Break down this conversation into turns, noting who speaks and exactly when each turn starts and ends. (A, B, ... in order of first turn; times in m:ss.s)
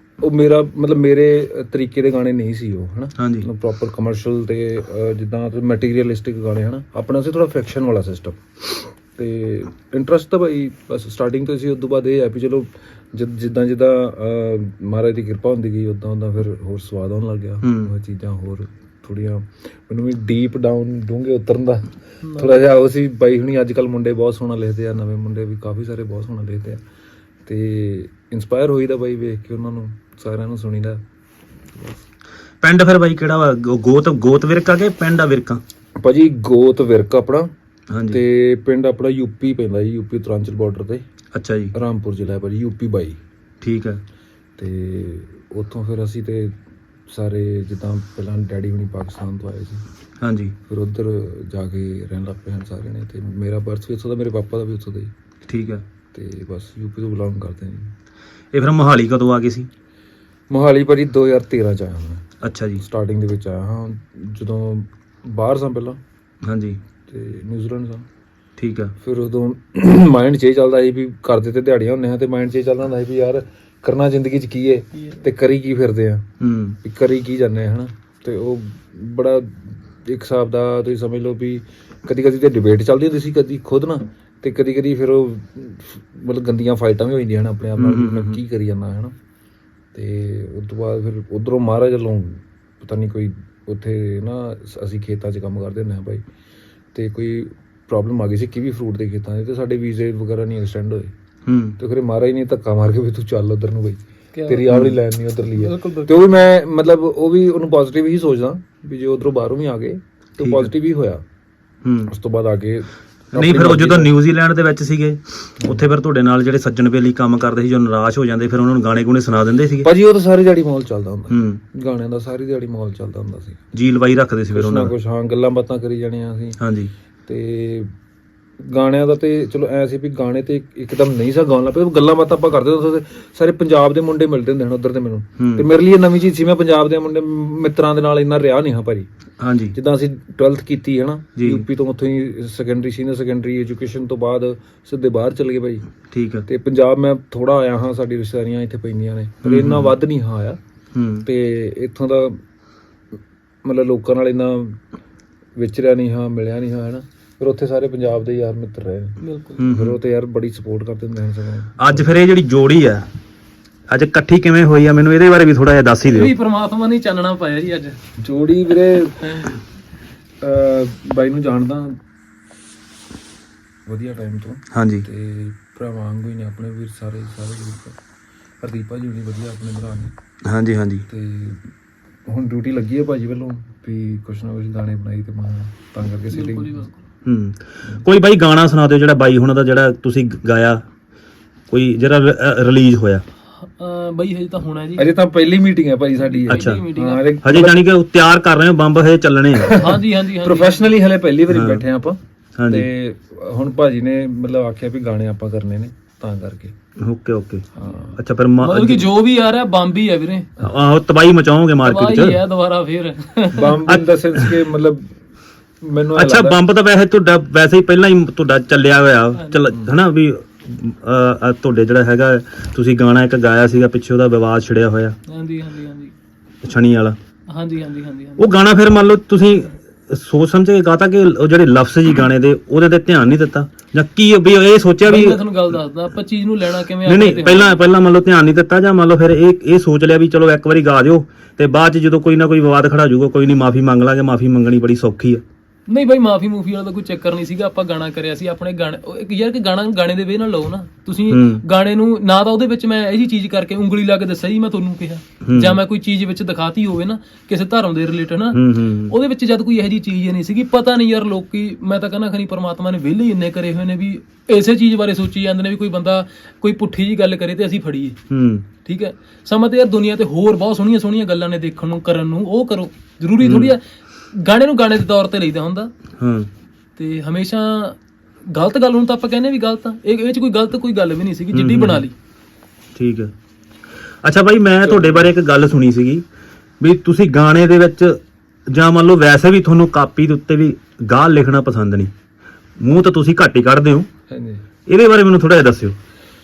0:00.2-0:26.8 A
0:03.2-0:03.4 B
0:17.6-0:17.9 B
0:22.2-0:22.6 C
0:27.4-0:31.0 A
0:31.7-0:32.0 A
0:32.6-0:35.6 B
0:36.0-0:37.5 A
0:37.9-0:38.2 B
0:38.1-0:41.0 A
0:41.3-0:41.7 B
0:41.7-0:43.2 A
0:43.6-0:44.0 B
0:44.6-0:46.5 A
0:47.1-0:49.8 A
0:50.2-0:50.5 B
0:50.7-0:55.1 A
0:55.5-0:55.8 B
0:56.1-0:57.9 A
0:58.5-0:59.7 B
1:00.5-1:02.2 A
1:02.4-1:02.8 B
1:02.8-1:06.0 A
1:06.4-1:06.8 B
1:07.1-1:08.0 A
1:08.6-1:08.9 B
1:09.0-1:16.2 A
1:16.4-1:16.8 B
1:16.8-1:29.1 A
1:27.8-1:28.4 B
1:29.9-1:36.2 A
1:36.9-1:41.1 A
1:41.4-1:41.8 B
1:41.8-1:51.2 A
1:44.3-1:44.8 C
1:44.7-1:45.0 B
1:45.6-1:46.2 C
1:50.4-1:50.7 B
1:51.8-1:52.1 B
1:52.1-1:54.1 A
1:53.3-1:59.9 B
1:59.8-2:03.6 A
2:01.3-2:01.6 B
2:03.7-2:04.9 B
2:04.5-2:06.6 A
2:06.6-2:06.9 B
2:07.3-2:07.9 A
2:08.6-2:19.1 A
2:15.4-2:15.7 B
2:19.4-2:19.7 B
2:19.7-2:25.8 A
2:21.4-2:21.6 B
2:26.1-2:26.4 B
2:26.5-2:30.6 A
2:29.4-2:29.9 B
2:30.9-2:31.3 B
2:31.2-2:32.4 A
2:33.6-2:34.8 A
2:35.6-2:42.1 A
2:39.2-2:39.6 C
2:39.6-2:40.0 B
2:41.8-2:43.1 B
2:43.9-2:46.3 B
2:46.1-2:48.0 C
2:48.2-2:49.6 A
2:50.4-2:52.0 A
2:53.9-2:57.9 A
2:54.7-2:55.0 B
2:58.6-3:00.1 A
3:00.4-3:01.0 B
3:01.1-3:01.6 A
3:02.3-3:06.8 A
3:06.3-3:07.0 C
3:07.2-3:10.8 B
3:11.7-3:13.2 B
3:13.6-3:15.1 C
3:15.0-3:17.8 A
3:16.2-3:17.2 C
3:16.5-3:16.9 B
3:17.4-3:19.9 B
3:19.5-3:26.7 A
3:19.7-3:20.9 C
3:21.5-3:21.8 B
3:22.6-3:22.9 B
3:27.0-3:29.1 B
3:27.8-3:28.2 A
3:28.6-3:30.5 C
3:30.6-3:32.4 B
3:31.8-3:33.8 C
3:33.5-3:35.1 A
3:33.9-3:34.6 B
3:35.8-3:36.6 A
3:36.1-3:45.2 B
3:45.3-3:46.1 C
3:46.6-3:47.2 B
3:47.5-3:48.4 C
3:48.4-3:55.4 B
3:55.0-3:57.8 C
3:57.0-4:05.4 B
4:05.9-4:28.2 C
4:11.3-4:11.6 B
4:15.4-4:15.8 B
4:18.5-4:19.1 B
4:28.3-4:28.6 B
4:28.8-4:33.8 C
4:33.4-4:33.8 B
4:34.3-4:35.9 C
4:36.2-4:36.5 B
4:37.0-4:42.1 C
4:41.5-4:42.0 B
4:43.0-4:43.3 B
4:44.2-4:46.2 B
4:44.8-4:45.3 A
4:46.8-4:52.1 B
4:52.8-4:54.1 B
4:54.3-4:54.6 A
4:54.9-4:56.0 B